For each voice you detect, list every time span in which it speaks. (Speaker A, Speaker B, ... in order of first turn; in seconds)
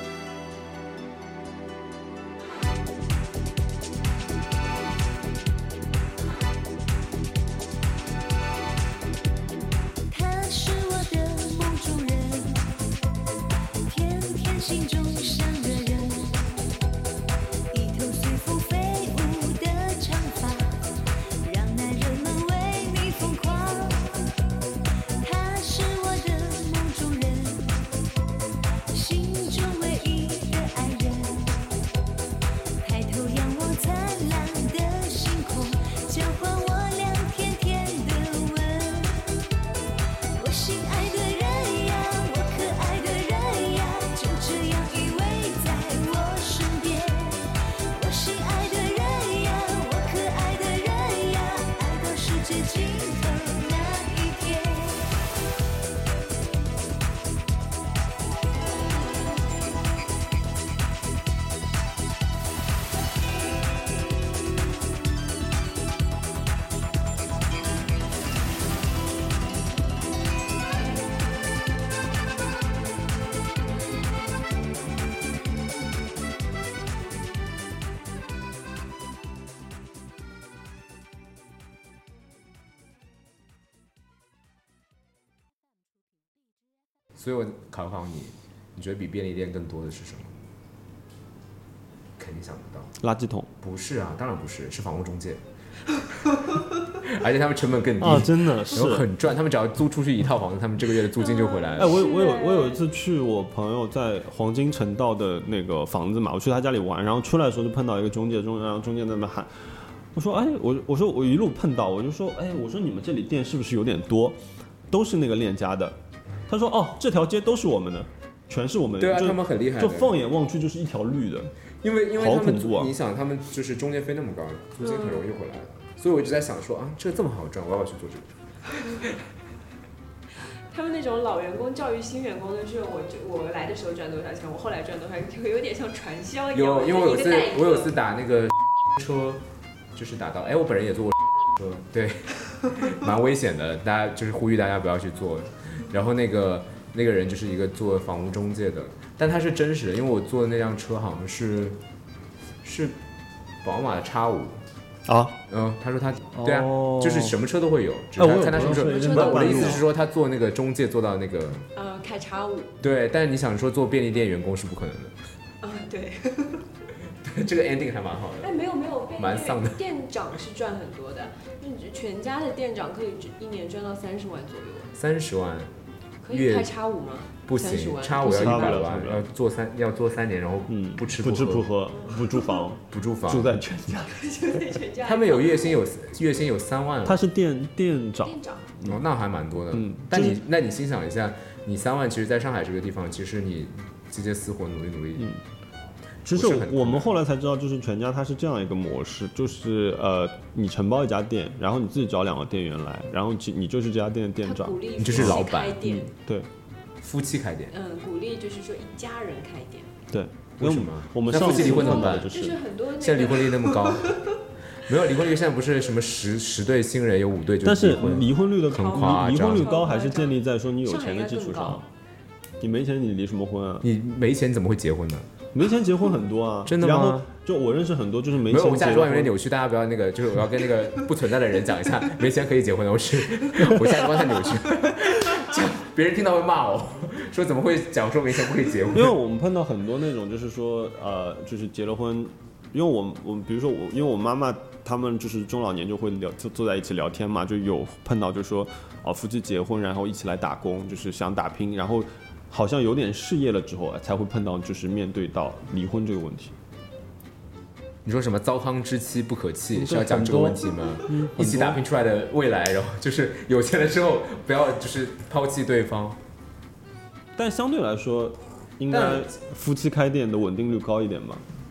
Speaker A: 10.1-12.7, 13.9-16.4, 17.7-20.9, 21.4-24.2, 25.2-27.8, 28.9-31.6, 32.8-39.3, 40.3-55.1
Speaker B: 87.2-90.3, 92.2-92.9, 93.6-95.4, 97.0-102.0, 119.0-120.2, 121.8-129.2, 136.5-139.4, 139.9-151.8, 152.6-153.0, 153.6-154.6, 155.5-161.7, 162.8-165.1, 167.2-168.5, 169.2-169.8, 174.9-175.7, 176.3-176.7, 177.4-181.7, 182.9-183.5, 185.0-187.2, 188.8-195.3, 196.3-197.1, 205.0-205.8, 207.0-207.7, 210.6-212.3, 213.0-214.2, 214.8-219.8, 223.8-225.3, 226.7-227.2, 228.4-239.1, 258.0-266.2, 268.9-269.3
Speaker C: 93.0-93.5, 98.0-99.1, 101.8-121.5, 122.1-122.9, 155.1-155.3, 156.3-157.4, 158.2-159.8, 178.2-179.2, 180.7-184.2, 187.0-189.0, 189.7-190.4, 196.2-206.5, 210.1-212.6, 217.6-221.9, 222.6-223.9, 225.5-229.3, 238.9-256.5, 259.7-261.8, 267.4-271.4
Speaker D: 101.2-102.8, 130.7-137.9, 158.6-159.8, 161.7-162.7, 165.6-166.6, 168.4-174.9, 176.2-178.8, 182.0-182.6, 184.1-185.8, 188.2-188.7, 204.4-206.1, 207.7-209.9, 211.3-214.1, 218.7-221.8